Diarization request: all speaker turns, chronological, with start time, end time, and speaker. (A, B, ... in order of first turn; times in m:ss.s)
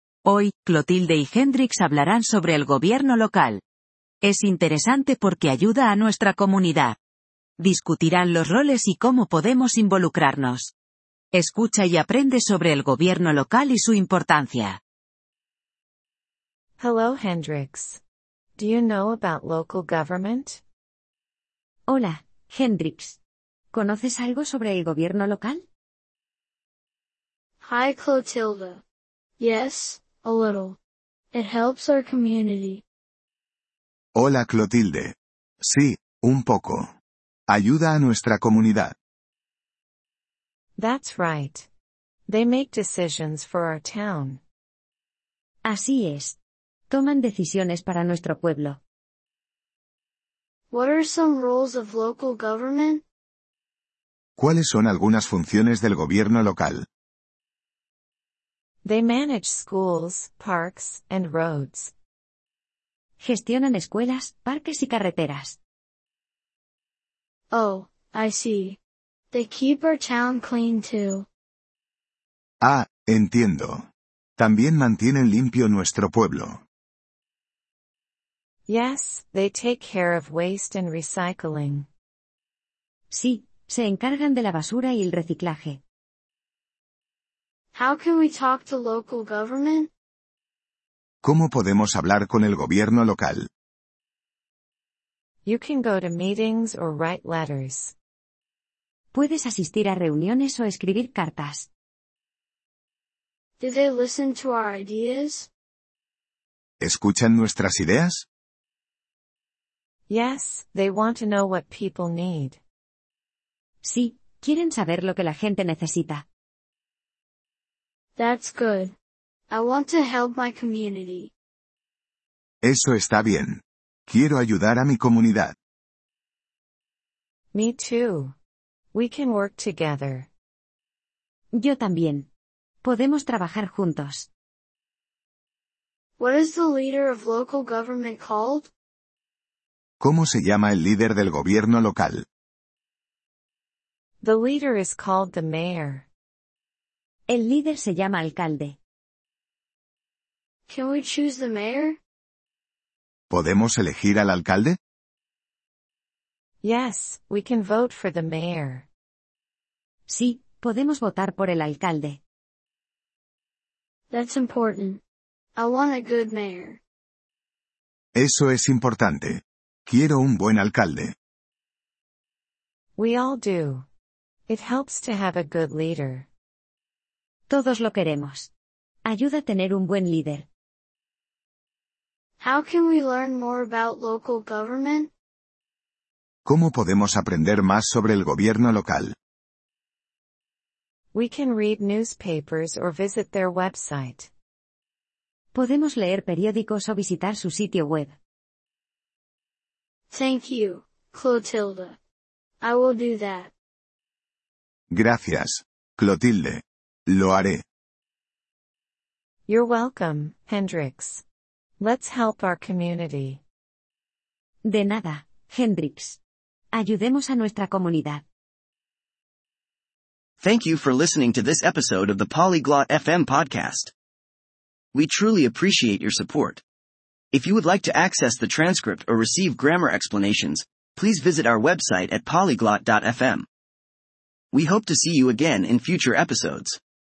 0:00.2-0:03.6 A
0:04.2-0:07.0 A
0:07.6-0:10.7 A
0:11.3-0:14.8 A
0:16.8-0:18.0 B
0:18.6-0:20.6 B
0:21.9-0:23.2 C
0:23.7-0:25.6 C
0:27.6-0:28.8 D
0:29.4-0:30.8 D
0:31.3-0:32.8 D
0:34.2-0:36.9 E
0:37.5-0:39.0 E
0:40.8-0:41.7 B
0:42.3-0:44.4 B
0:45.6-0:46.4 C
0:46.9-0:48.8 C
0:50.7-0:53.0 D
0:54.4-0:56.9 E
0:58.8-1:01.9 B
1:03.2-1:05.6 C
1:07.5-1:08.8 D
1:09.3-1:11.3 D
1:12.6-1:13.9 E
1:14.4-1:16.6 E
1:18.7-1:21.9 B
1:23.1-1:25.8 C
1:27.7-1:29.9 D
1:31.2-1:33.5 E
1:35.4-1:37.9 B
1:39.1-1:41.7 C
1:43.6-1:45.5 D
1:46.8-1:48.3 E
1:50.1-1:52.6 B
1:53.8-1:56.3 C
1:58.2-1:58.9 D
1:59.5-2:01.3 D
2:02.6-2:05.6 E
2:07.5-2:08.4 B
2:08.9-2:10.3 B
2:11.6-2:12.3 C
2:12.8-2:14.3 C
2:16.2-2:18.7 D
2:20.0-2:22.2 E
2:24.2-2:26.1 B
2:27.3-2:28.8 C
2:30.7-2:32.0 D
2:33.3-2:34.8 E
2:36.6-2:38.9 B
2:40.1-2:42.2 C
2:44.1-2:45.0 D
2:45.6-2:46.8 D
2:48.2-2:51.2 E
2:53.0-2:53.9 B
2:54.5-2:56.3 B
2:57.5-2:58.5 C
2:59.0-3:00.5 C
3:02.4-3:05.1 D
3:06.4-3:09.2 E
3:11.1-3:14.3 B
3:15.5-3:18.2 C
3:20.1-3:22.0 D
3:22.6-3:23.5 D
3:24.9-3:27.6 E
3:29.5-3:31.2 B
3:31.8-3:33.4 B
3:34.6-3:36.2 C
3:36.7-3:38.2 C
3:40.4-3:43.9 F
3:44.9-3:46.6 F
3:47.3-3:53.5 F
3:54.5-3:56.8 F